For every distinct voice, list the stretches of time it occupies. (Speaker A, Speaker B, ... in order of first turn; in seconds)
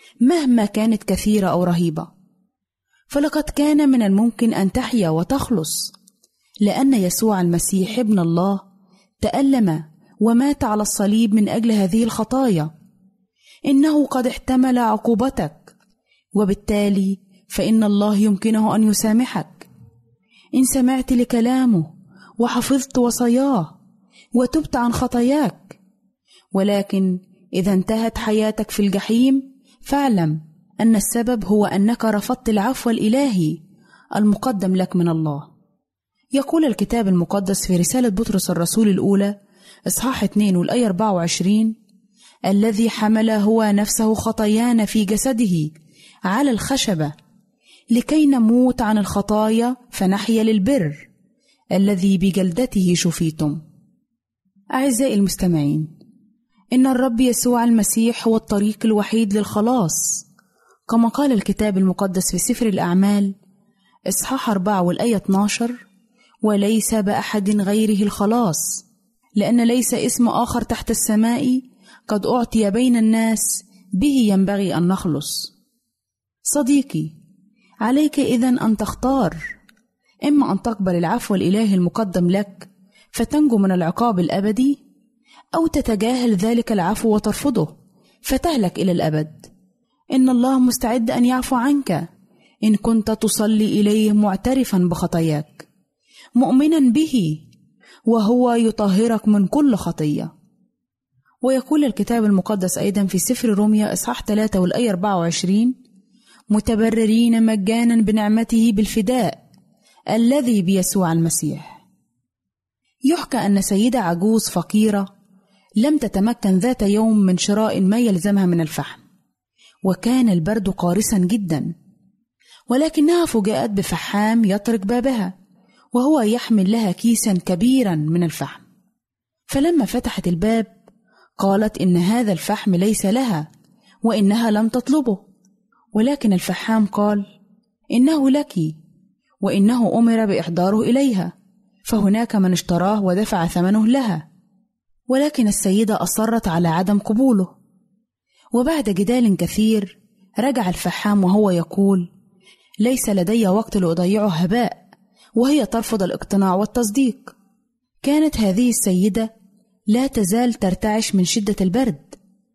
Speaker A: 0.2-2.1, 3.1-5.9, 6.7-8.6, 9.2-12.7, 13.7-15.7, 16.4-19.7, 20.6-21.9, 22.4-23.7, 24.4-25.8, 26.6-33.6, 34.2-35.5, 36.4-39.4, 39.9-41.8, 42.5-45.7, 46.3-47.1, 47.9-51.1, 51.8-53.6, 54.8-55.9, 56.7-60.2, 60.9-63.3, 64.1-65.8, 66.5-68.8, 69.4-75.5, 76.5-77.1, 77.8-79.4, 80.3-84.8, 85.5-87.7, 88.3-89.5, 90.1-92.0, 92.7-95.7, 96.4-97.4, 98.1-100.3, 101.4-105.8, 106.5-109.4, 110.1-111.8, 113.1-115.1, 115.8-119.0, 119.9-121.7, 122.7-125.3, 126.0-128.6, 129.5-130.7, 131.4-133.5, 134.1-135.2, 135.9-137.3, 137.9-138.8, 139.4-141.3, 141.9-144.2, 145.1-147.5, 148.6-152.1, 152.8-154.8, 155.4-157.3, 158.0-159.3, 159.9-162.2